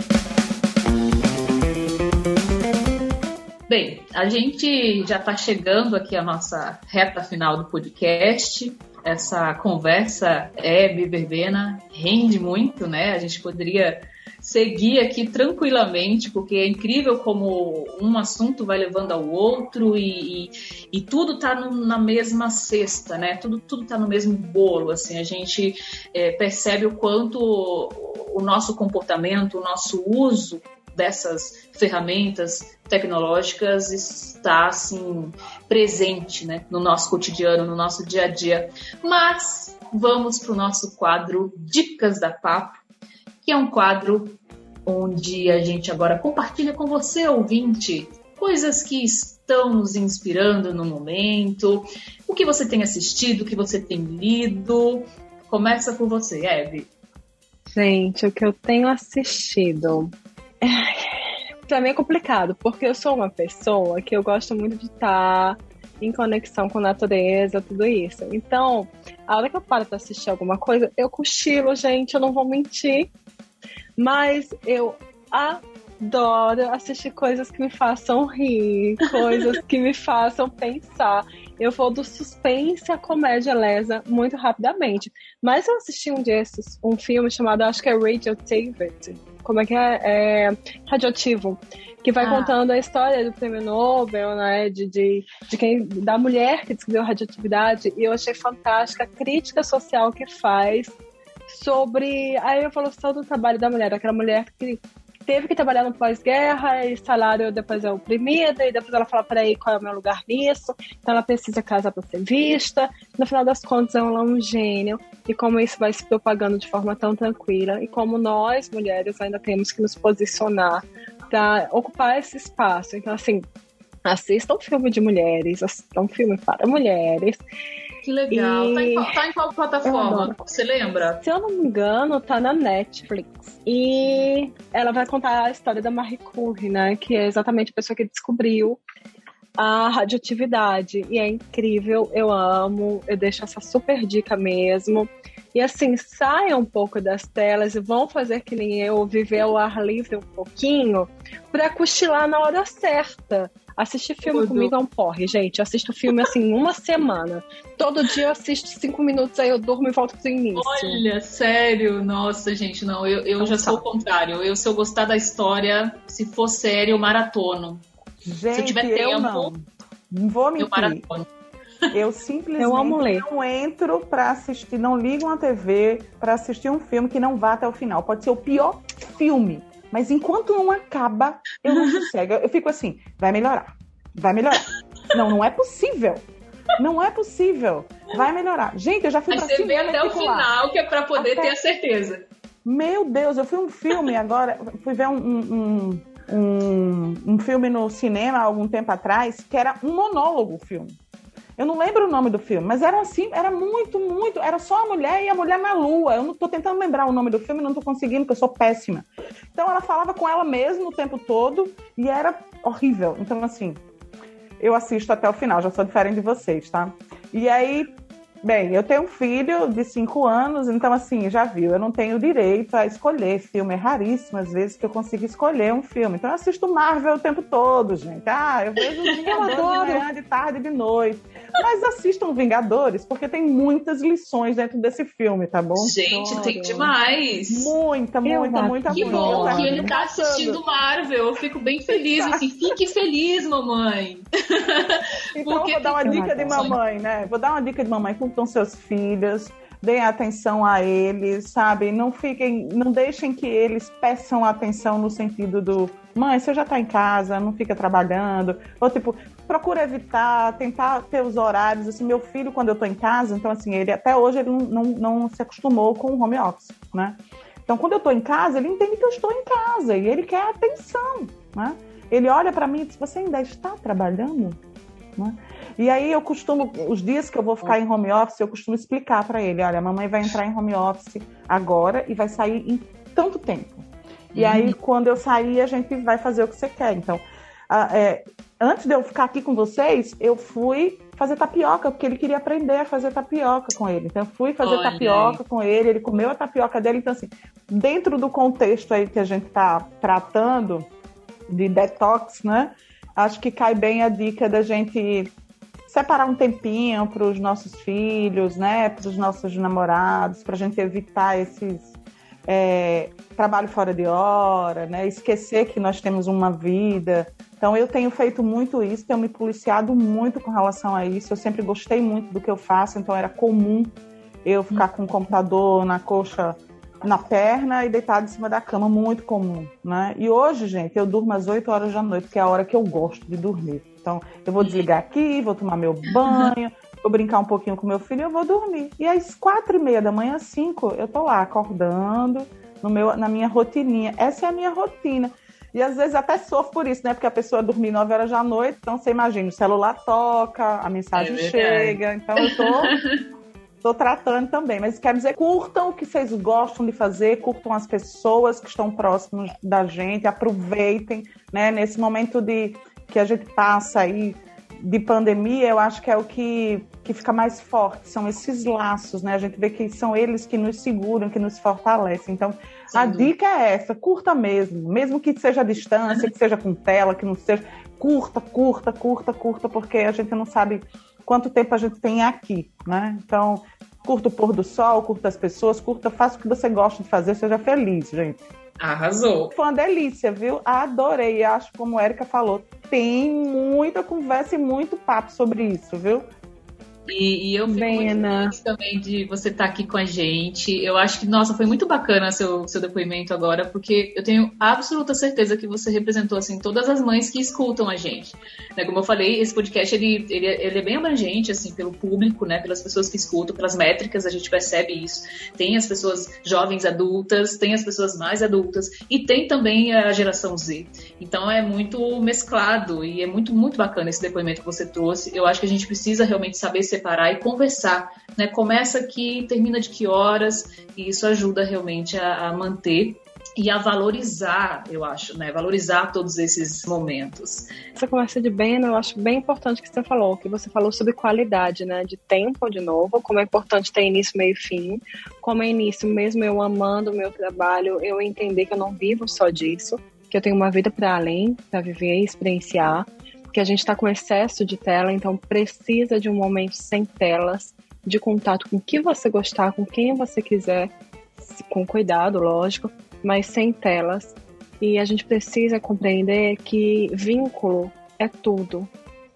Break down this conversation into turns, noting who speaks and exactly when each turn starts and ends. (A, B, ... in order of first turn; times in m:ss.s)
0:03.7-0:42.8 A
0:43.4-0:56.9 A
0:57.7-1:13.1 B
1:14.0-1:41.0 B
1:32.2-1:32.5 A
1:41.5-2:03.4 B
2:04.0-2:07.4 B
2:08.0-2:11.2 A
2:08.3-2:09.2 B
2:09.8-2:10.4 B
2:11.2-2:18.8 B
2:19.6-2:41.0 B
2:34.3-2:34.7 A
2:40.6-2:47.8 A
2:43.4-2:43.8 B
2:48.2-2:51.0 C
2:48.5-2:49.5 A
2:50.6-2:51.3 A
2:51.9-3:06.3 C
2:52.6-2:53.3 B
3:06.8-3:10.5 C
3:09.3-3:12.3 A
3:11.2-3:11.5 C
3:12.6-3:21.0 C
3:21.6-3:33.8 C
3:34.6-3:56.6 C
3:49.2-3:49.7 A
3:49.3-3:50.0 B
3:55.8-3:57.8 A
3:56.3-3:56.9 B
3:57.5-4:00.6 C
3:58.2-3:59.9 B
3:58.9-4:06.8 A
4:01.9-4:02.4 C
4:05.4-4:34.6 C
4:06.0-4:06.7 B
4:35.2-5:00.9 C
4:44.3-4:44.8 A
4:54.6-4:55.4 A
5:01.5-5:05.3 C
5:05.9-5:11.9 C
5:12.5-5:53.0 C
5:34.6-5:34.9 A
5:51.2-5:53.2 A
5:53.8-6:28.4 C
6:12.9-6:13.3 A
6:28.8-6:29.5 A
6:29.5-6:36.3 C
6:37.1-7:17.7 A
6:37.7-6:38.6 B
7:18.0-7:48.9 B